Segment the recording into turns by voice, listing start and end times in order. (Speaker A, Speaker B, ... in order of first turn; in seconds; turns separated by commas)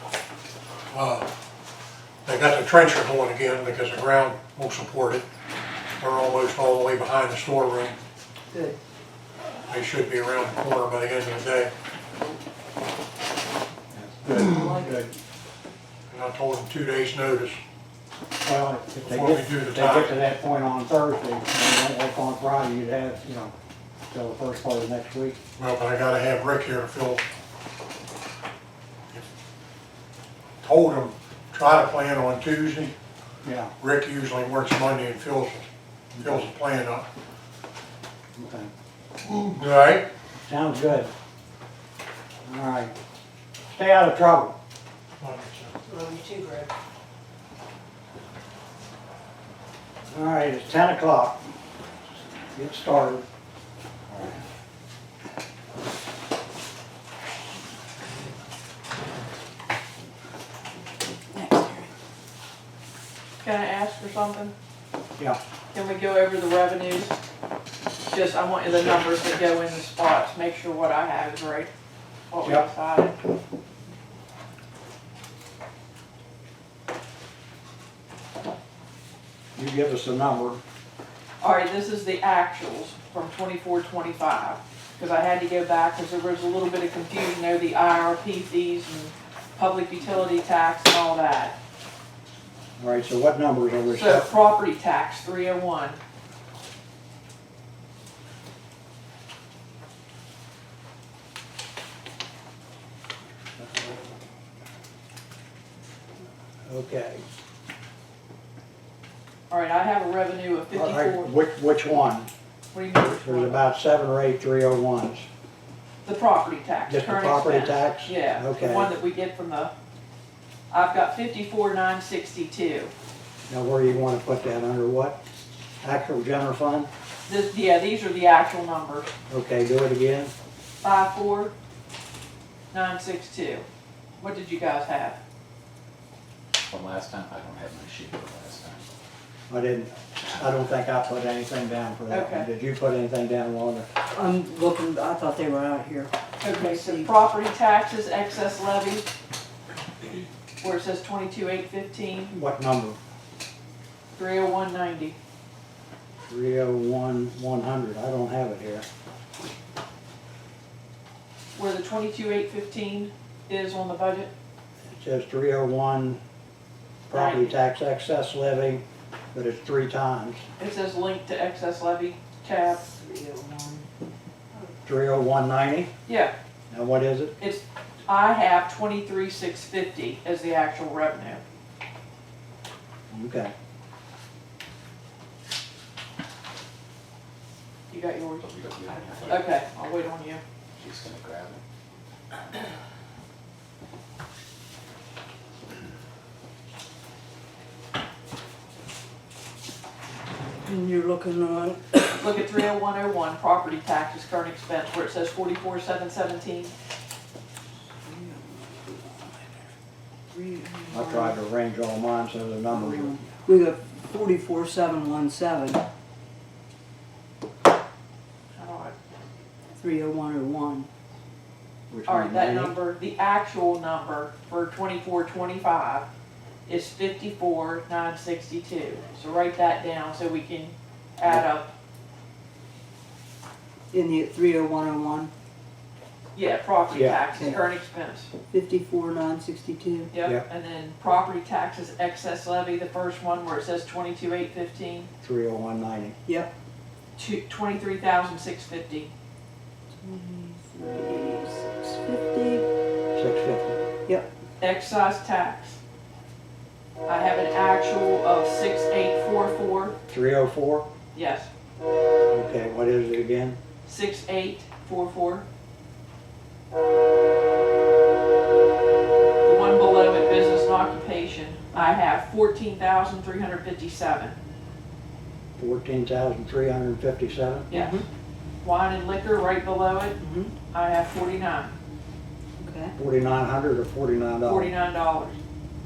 Speaker A: 0.9-1.3, Speaker A: 2.2-5.2, Speaker A: 6.0-8.0, Speaker B: 8.5-8.8, Speaker A: 9.7-11.7, Speaker C: 13.9-15.1, Speaker B: 14.3-15.0, Speaker A: 16.1-17.6, Speaker C: 18.4-23.5, Speaker A: 19.0-20.1, Speaker C: 24.1-25.4, Speaker A: 25.6-27.2, Speaker A: 30.6-33.0, Speaker C: 33.4-33.7, Speaker A: 33.8-35.7, Speaker C: 36.1-36.5, Speaker A: 36.2-37.0, Speaker C: 38.4-38.7, Speaker A: 39.2-40.1, Speaker C: 40.4-41.1, Speaker C: 42.5-43.0, Speaker C: 43.7-44.5, Speaker A: 45.2-45.8, Speaker B: 45.9-46.7, Speaker C: 50.1-51.4, Speaker C: 52.5-53.3, Speaker C: 54.1-54.4, Speaker B: 61.3-61.9, Speaker D: 63.4-64.5, Speaker D: 65.7-67.1, Speaker D: 68.1-71.7, Speaker D: 72.3-73.2, Speaker C: 79.5-80.6, Speaker D: 81.4-91.5, Speaker C: 92.8-94.3, Speaker D: 93.9-96.0, Speaker C: 103.6-104.0, Speaker C: 106.7-107.2, Speaker D: 109.5-111.3, Speaker C: 110.7-112.3, Speaker D: 112.7-113.6, Speaker C: 113.0-115.3, Speaker D: 116.0-119.7, Speaker C: 116.9-118.9, Speaker D: 120.7-122.9, Speaker C: 123.5-125.2, Speaker C: 125.8-126.9, Speaker D: 127.3-129.1, Speaker C: 129.3-130.3, Speaker D: 130.8-131.5, Speaker D: 132.7-133.7, Speaker D: 134.2-135.2, Speaker E: 136.7-138.8, Speaker C: 139.5-143.9, Speaker D: 142.1-142.5, Speaker B: 144.1-147.1, Speaker D: 146.4-149.1, Speaker D: 150.6-152.3, Speaker C: 152.3-153.0, Speaker D: 154.1-155.2, Speaker C: 156.3-158.8, Speaker D: 161.5-164.3, Speaker C: 164.8-166.2, Speaker C: 167.1-170.4, Speaker D: 167.1-167.6, Speaker D: 170.6-172.8, Speaker B: 172.8-173.8, Speaker C: 174.8-175.9, Speaker D: 176.1-176.3, Speaker C: 176.7-177.3, Speaker D: 177.4-181.4, Speaker C: 183.1-183.5, Speaker D: 187.9-190.4, Speaker E: 188.4-189.4, Speaker E: 190.8-191.6, Speaker B: 200.6-202.1, Speaker D: 202.1-206.7, Speaker B: 208.0-209.7, Speaker B: 210.3-211.4, Speaker C: 210.9-213.2, Speaker B: 212.7-215.8, Speaker D: 218.5-218.9, Speaker B: 219.8-220.9, Speaker C: 221.9-222.8, Speaker D: 222.1-226.1, Speaker D: 226.7-231.7, Speaker B: 233.9-235.3, Speaker D: 236.3-238.3, Speaker C: 236.9-237.2, Speaker B: 237.3-237.6, Speaker B: 238.5-240.1, Speaker D: 240.1-245.1, Speaker C: 245.2-246.2, Speaker B: 246.2-246.5, Speaker D: 247.2-249.1, Speaker B: 250.0-252.7, Speaker C: 253.1-253.8, Speaker D: 254.6-255.8, Speaker D: 257.1-259.9, Speaker C: 260.1-260.9, Speaker D: 261.1-261.5, Speaker C: 262.3-263.6, Speaker D: 263.9-265.4, Speaker D: 269.4-274.3, Speaker C: 275.6-277.7, Speaker D: 277.7-278.0, Speaker B: 277.7-278.1, Speaker D: 278.6-280.2, Speaker B: 280.2-280.5, Speaker D: 280.7-281.8, Speaker B: 282.6-282.9, Speaker C: 282.9-284.7, Speaker D: 284.4-285.4